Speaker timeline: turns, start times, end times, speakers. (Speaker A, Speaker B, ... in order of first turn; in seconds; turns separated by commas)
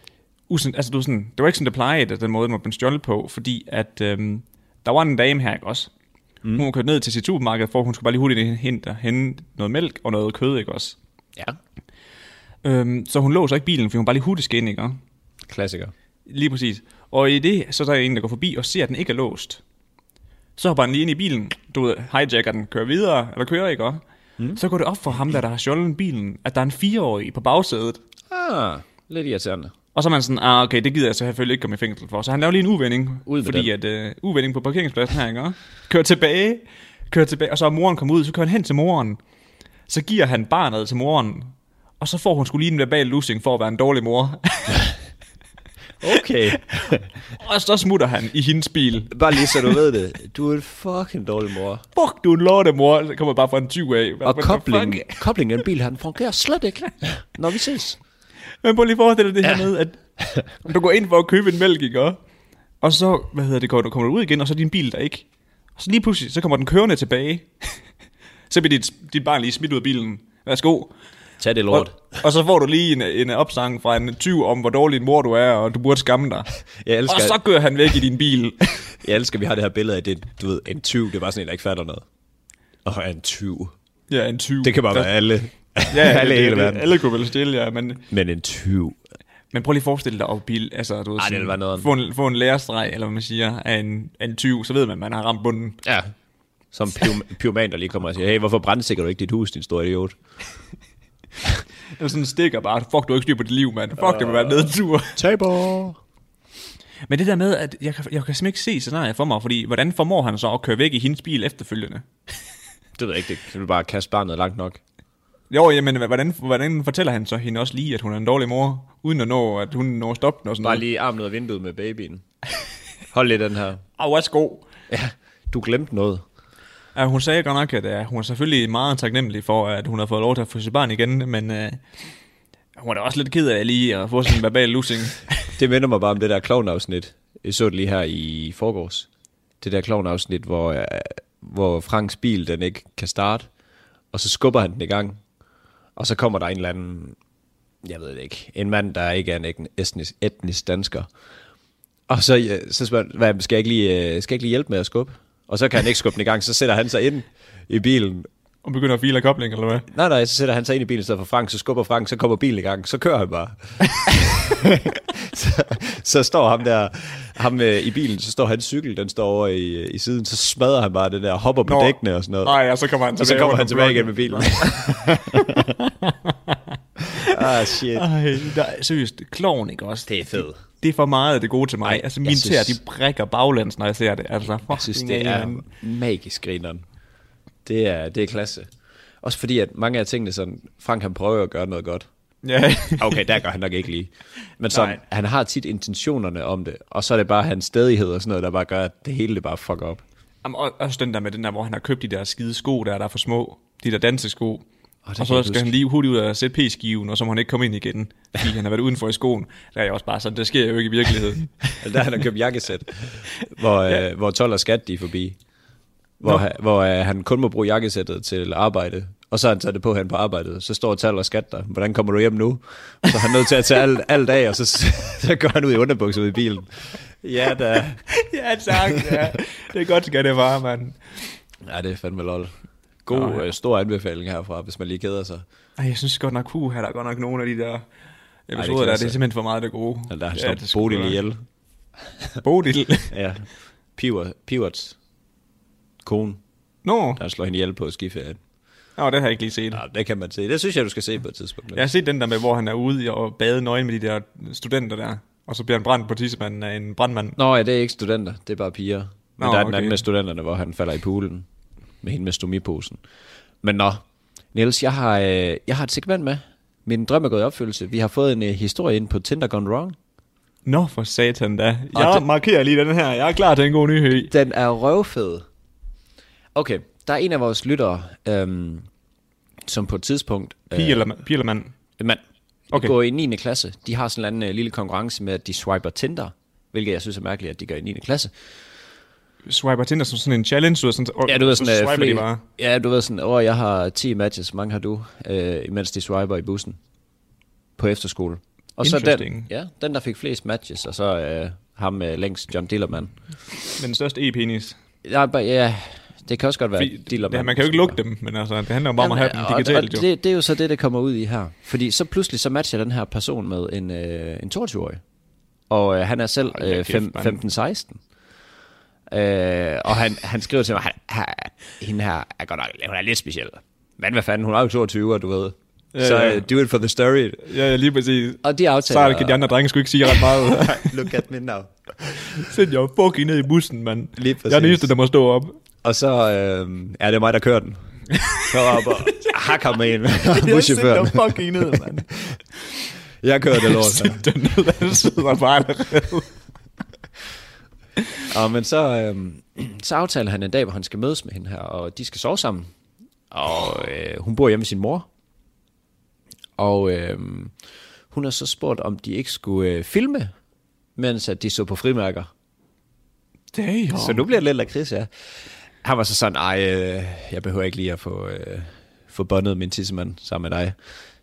Speaker A: 0.5-5.9, Speaker A: 6.5-11.0, Speaker A: 12.6-15.0, Speaker B: 15.5-15.9, Speaker A: 16.3-19.6, Speaker A: 20.6-24.0, Speaker A: 24.6-28.0, Speaker B: 28.3-29.7, Speaker A: 29.9-39.2, Speaker B: 33.3-33.7, Speaker A: 39.9-45.0, Speaker B: 46.0-47.1, Speaker A: 47.3-49.8, Speaker B: 49.1-51.8, Speaker A: 52.0-55.2, Speaker B: 54.2-58.0, Speaker A: 58.6-60.0, Speaker A: 60.6-62.2, Speaker A: 62.8-65.3, Speaker A: 65.8-67.8, Speaker A: 68.5-70.9, Speaker B: 71.4-72.2, Speaker A: 71.7-76.5, Speaker B: 76.8-77.4, Speaker A: 77.1-78.9, Speaker B: 79.0-82.0, Speaker B: 82.8-83.7, Speaker A: 84.1-85.1, Speaker B: 84.6-86.9, Speaker A: 85.9-88.0, Speaker B: 88.1-89.0, Speaker A: 89.5-95.8, Speaker B: 91.2-91.9, Speaker B: 95.8-96.1, Speaker B: 96.7-100.2, Speaker A: 102.0-105.2, Speaker B: 104.0-106.0, Speaker A: 107.1-112.1, Speaker B: 113.0-114.8, Speaker A: 115.5-120.8, Speaker B: 120.6-122.2, Speaker B: 123.1-123.8, Speaker A: 124.0-124.7, Speaker B: 124.9-126.2, Speaker A: 127.0-131.8, Speaker A: 132.8-135.3, Speaker B: 135.6-139.1, Speaker B: 139.6-143.5, Speaker B: 144.1-145.2, Speaker B: 146.0-147.2, Speaker B: 147.8-151.1, Speaker B: 152.1-158.3, Speaker A: 158.6-159.9, Speaker B: 159.9-172.6, Speaker A: 171.7-176.6, Speaker B: 173.2-175.8, Speaker A: 177.1-185.7, Speaker B: 177.1-178.1, Speaker B: 180.1-180.6, Speaker B: 181.8-182.8, Speaker B: 184.7-186.8, Speaker B: 187.7-188.7, Speaker B: 189.2-192.1, Speaker A: 192.4-193.3, Speaker B: 193.0-200.0, Speaker A: 194.7-195.0, Speaker A: 200.4-204.7, Speaker B: 205.1-205.7, Speaker A: 205.2-211.7, Speaker B: 211.8-215.4, Speaker B: 216.2-228.0, Speaker A: 228.1-231.4, Speaker B: 228.7-229.4, Speaker B: 231.6-232.5, Speaker B: 233.1-235.4, Speaker A: 233.1-233.4, Speaker A: 235.8-237.8, Speaker A: 238.5-241.2, Speaker B: 238.6-239.2, Speaker B: 240.1-241.4, Speaker A: 242.4-243.1, Speaker B: 243.1-245.0, Speaker B: 246.0-246.4, Speaker A: 246.8-247.2, Speaker B: 247.2-248.4, Speaker A: 249.0-249.8, Speaker B: 249.7-251.9, Speaker A: 251.7-257.4, Speaker B: 257.4-261.5, Speaker A: 259.4-260.0, Speaker B: 262.0-263.0, Speaker B: 263.6-264.0, Speaker B: 264.5-270.0, Speaker A: 270.7-274.3, Speaker B: 271.9-272.3, Speaker B: 274.3-275.4, Speaker B: 276.6-278.9, Speaker B: 279.7-281.1, Speaker A: 280.7-281.7, Speaker B: 282.0-288.3, Speaker A: 289.5-292.4, Speaker B: 291.3-296.8, Speaker B: 297.8-303.6, Speaker A: 298.8-299.5, Speaker A: 303.8-304.8, Speaker B: 305.0-308.0, Speaker A: 306.8-310.1, Speaker B: 309.0-315.0, Speaker B: 315.7-318.0, Speaker A: 316.5-317.4, Speaker B: 319.1-327.4, Speaker A: 325.9-326.5, Speaker A: 327.5-331.1, Speaker B: 328.4-329.5, Speaker B: 330.1-332.4, Speaker A: 332.2-335.6, Speaker B: 334.2-334.9, Speaker B: 335.8-337.8, Speaker A: 338.1-342.1, Speaker B: 338.5-342.4, Speaker B: 343.2-344.2, Speaker A: 343.6-346.3, Speaker B: 348.3-352.7, Speaker B: 353.3-355.1, Speaker B: 356.6-357.5, Speaker B: 358.1-360.3, Speaker B: 361.0-362.3, Speaker A: 363.5-364.2, Speaker B: 363.9-365.1, Speaker B: 365.8-370.8